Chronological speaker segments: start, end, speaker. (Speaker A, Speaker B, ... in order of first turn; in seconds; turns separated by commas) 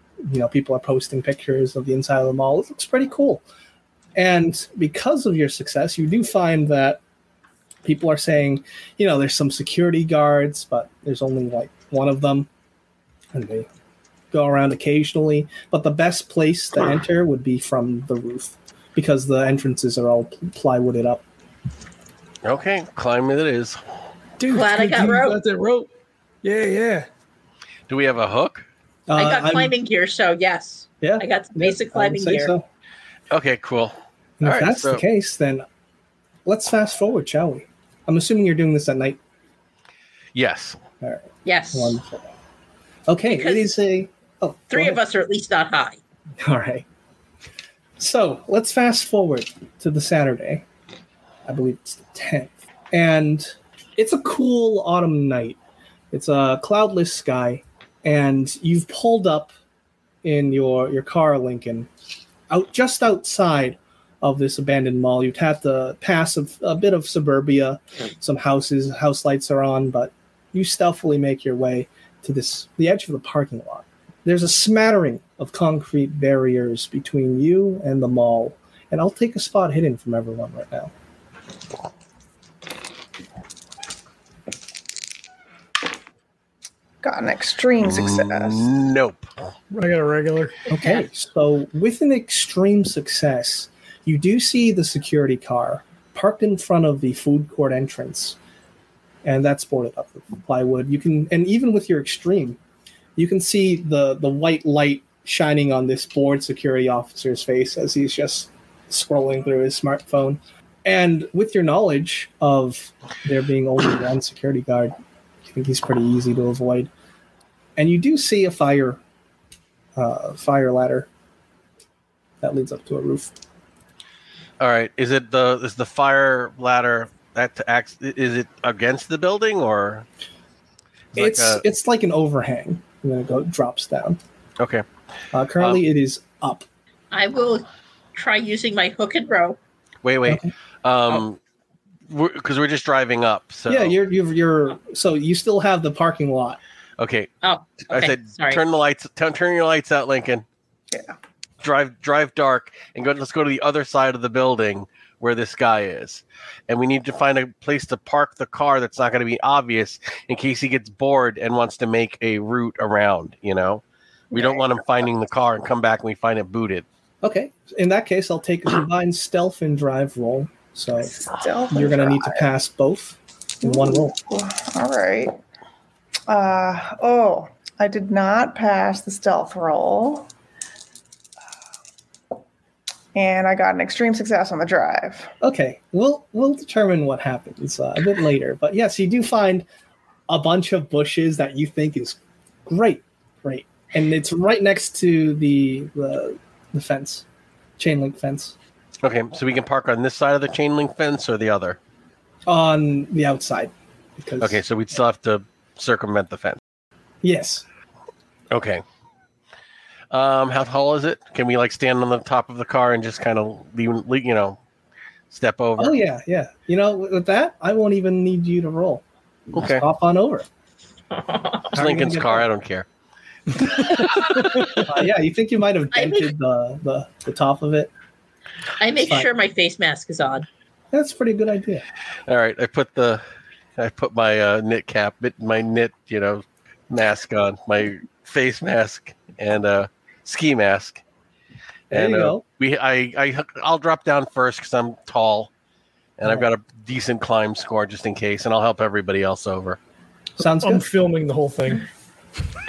Speaker A: 0.2-3.4, Speaker A: 4.2-7.0, Speaker A: 7.8-12.5, Speaker A: 13.3-13.7, Speaker A: 14.3-21.2, Speaker B: 22.4-23.8, Speaker C: 24.4-25.9, Speaker D: 24.5-25.4, Speaker C: 26.4-27.1, Speaker B: 27.9-28.7, Speaker A: 29.1-29.7, Speaker D: 29.2-32.5, Speaker A: 31.0-32.7, Speaker B: 33.3-35.0, Speaker A: 34.4-35.6, Speaker A: 36.5-39.2, Speaker B: 40.4-40.8, Speaker A: 41.0-42.3, Speaker D: 41.5-42.0, Speaker A: 43.1-45.0, Speaker D: 43.3-43.7, Speaker D: 44.7-46.0, Speaker A: 46.4-46.9, Speaker A: 48.0-50.6, Speaker A: 51.5-55.6, Speaker A: 56.1-59.5, Speaker A: 60.2-61.9, Speaker A: 62.5-80.9, Speaker E: 87.0-88.7, Speaker B: 87.8-89.3, Speaker C: 89.7-90.6, Speaker A: 90.7-98.4, Speaker A: 99.2-102.6, Speaker A: 103.2-114.9, Speaker A: 115.5-116.9, Speaker A: 117.8-119.0, Speaker A: 120.0-121.1, Speaker A: 122.4-123.3, Speaker B: 124.6-130.1, Speaker B: 131.1-131.6, Speaker A: 131.2-134.2, Speaker B: 134.6-134.8, Speaker A: 135.3-136.7, Speaker D: 137.1-139.6, Speaker B: 140.0-141.4, Speaker A: 140.3-140.5, Speaker B: 142.1-144.0, Speaker A: 143.7-146.6, Speaker B: 147.0-147.3, Speaker D: 147.4-148.6, Speaker B: 147.9-150.4, Speaker B: 151.6-166.8, Speaker E: 164.3-164.7, Speaker A: 167.2-171.1, Speaker E: 171.1-172.5, Speaker A: 171.7-174.2, Speaker E: 173.6-175.4, Speaker E: 176.3-180.3, Speaker E: 183.2-185.3, Speaker A: 185.4-189.7, Speaker A: 190.3-197.2, Speaker A: 197.8-198.6, Speaker B: 199.0-201.8, Speaker A: 202.5-204.6, Speaker B: 204.4-206.6, Speaker A: 207.2-207.7, Speaker B: 208.5-208.8, Speaker B: 210.1-214.6, Speaker B: 215.3-216.0, Speaker A: 215.8-220.5, Speaker B: 219.5-219.8, Speaker D: 221.1-221.7, Speaker A: 221.7-222.5, Speaker B: 221.8-222.9, Speaker B: 223.8-224.7, Speaker A: 224.8-227.9, Speaker D: 225.9-226.3, Speaker D: 228.8-230.5, Speaker A: 229.0-229.3, Speaker A: 230.9-231.8, Speaker B: 232.3-233.2, Speaker B: 233.8-241.0, Speaker A: 241.9-242.4, Speaker B: 241.9-245.5, Speaker B: 246.2-249.8, Speaker A: 250.4-250.9, Speaker C: 250.4-251.9